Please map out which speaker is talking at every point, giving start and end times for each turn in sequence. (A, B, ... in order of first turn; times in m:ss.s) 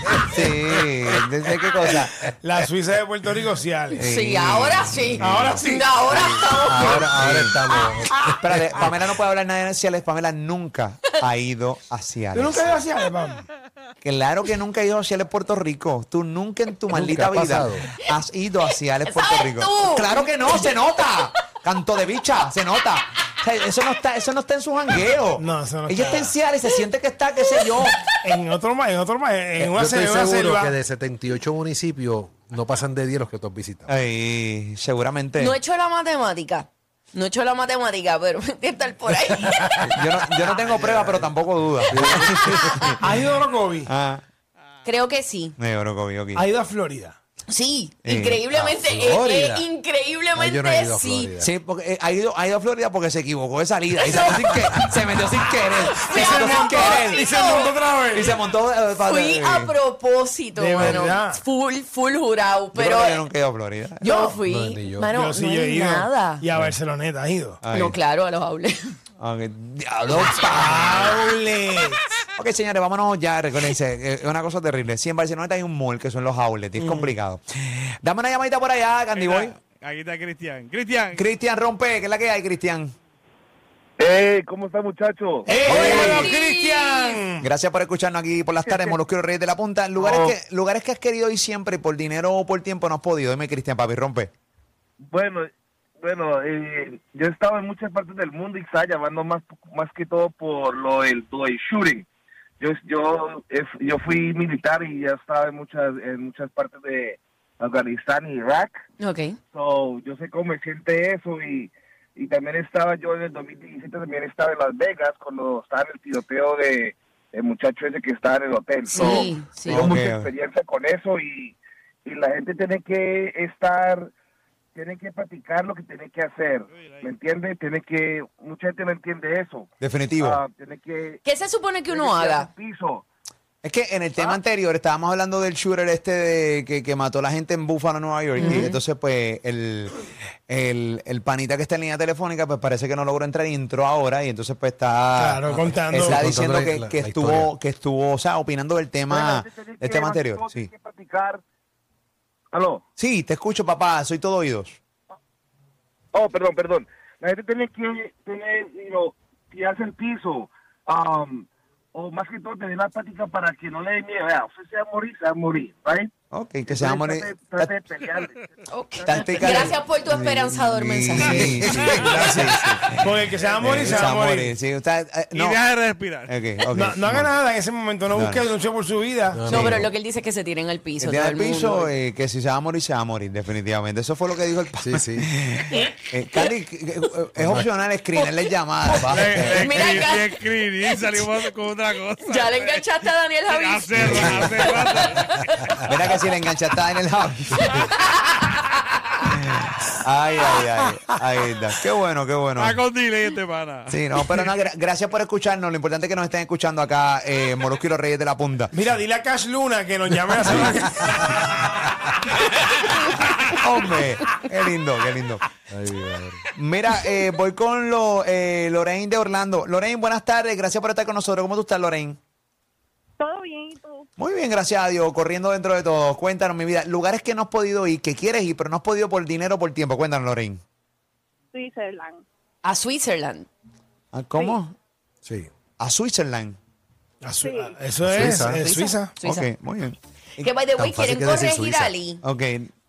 0:00.3-0:02.6 A
0:01.9-0:04.0 B
0:04.0-0:07.7 A
0:04.0-0:07.1 C
0:05.2-0:06.0 B
0:06.7-0:09.0 D
0:08.4-0:12.8 A
0:12.3-0:13.5 B
0:14.0-0:28.0 A
0:16.9-0:17.9 D
0:19.0-0:20.7 C
0:25.4-0:26.4 B
0:27.7-0:28.0 C
0:28.2-0:30.8 B
0:29.6-0:33.9 D
0:33.9-0:35.6 A
0:35.4-0:39.7 C
0:39.8-0:43.0 A
0:40.6-0:41.0 C
0:41.9-0:43.0 C
0:41.9-0:42.5 D
0:43.0-0:43.9 B
0:43.9-0:44.2 A
0:44.8-0:45.6 C
0:45.6-0:46.4 A
0:46.4-0:47.2 B
0:47.5-0:51.3 C
0:48.1-0:48.5 A
0:48.5-0:49.7 D
0:50.4-0:51.5 D
0:51.4-0:57.2 A
0:54.0-0:55.4 C
0:55.9-0:57.7 C
0:56.0-0:58.4 B
0:58.1-0:59.8 A
0:59.0-1:03.3 C
1:00.6-1:01.4 B
1:02.7-1:04.4 A
1:04.0-1:06.5 C
1:04.0-1:04.3 B
1:04.5-1:05.1 D
1:05.1-1:07.6 B
1:07.6-1:08.0 A
1:07.7-1:09.0 C
1:09.2-1:11.3 A
1:10.5-1:12.0 B
1:12.4-1:19.6 A
1:16.8-1:17.2 B
1:19.1-1:21.3 E
1:21.1-1:22.9 A
1:24.0-1:25.5 F
1:25.4-1:27.5 B
1:25.5-1:27.2 C
1:25.6-1:26.3 A
1:27.4-1:34.3 A
1:28.7-1:28.9 F
1:30.0-1:30.3 F
1:35.0-1:42.1 F
1:42.6-1:48.8 F
1:49.0-1:49.4 C
1:49.5-2:04.1 F
1:58.9-1:59.8 C
1:59.7-2:00.3 A
2:04.8-2:09.7 F
2:06.7-2:07.1 E
2:09.8-2:10.4 A
2:10.2-2:11.2 F
2:11.2-2:12.5 C
2:11.9-2:13.0 F
2:13.6-2:20.0 A
2:18.4-2:18.8 C
2:18.4-2:18.7 B
2:20.5-2:30.7 A
2:25.2-2:26.2 B
2:25.5-2:27.5 D
2:29.1-2:31.4 F
2:32.5-2:32.8 F
2:33.0-2:34.8 A
2:36.1-2:46.1 F
2:46.3-2:47.7 A
2:46.7-2:48.3 F
2:48.7-2:52.0 C
2:49.0-2:55.6 A
2:49.4-2:49.7 B
2:51.2-2:54.5 B
2:51.4-2:52.2 E
2:55.3-2:56.6 E
2:56.3-2:57.3 A
2:56.7-2:59.6 B
2:58.1-2:58.5 A
2:59.3-2:59.9 D
2:59.5-3:01.9 C
3:01.0-3:10.1 A
3:04.8-3:05.3 D
3:05.7-3:06.5 C
3:07.4-3:07.7 D
3:09.1-3:12.9 E
3:09.2-3:11.3 C
3:12.2-3:15.3 C
3:13.5-3:15.9 E
3:14.0-3:15.0 D
3:15.9-3:17.9 A
3:17.6-3:19.2 C
3:19.3-3:22.8 A
3:22.6-3:24.5 E
3:23.9-3:28.7 A
3:28.7-3:31.4 B
3:30.4-3:30.8 A
3:33.4-3:35.4 A
3:35.7-3:36.4 D
3:36.6-3:42.2 A
3:43.2-3:44.1 G
3:44.2-3:50.6 A
3:51.5-3:52.2 G
3:52.6-3:53.5 C
3:54.1-3:54.8 A
3:55.2-3:55.5 D
3:55.8-3:56.6 A
3:57.2-3:59.2 B
3:57.4-3:57.8 G
3:58.0-3:58.6 D
3:58.1-4:00.5 A
3:59.2-3:59.5 C
4:00.4-4:02.2 C
4:00.8-4:01.9 D
4:02.2-4:02.7 A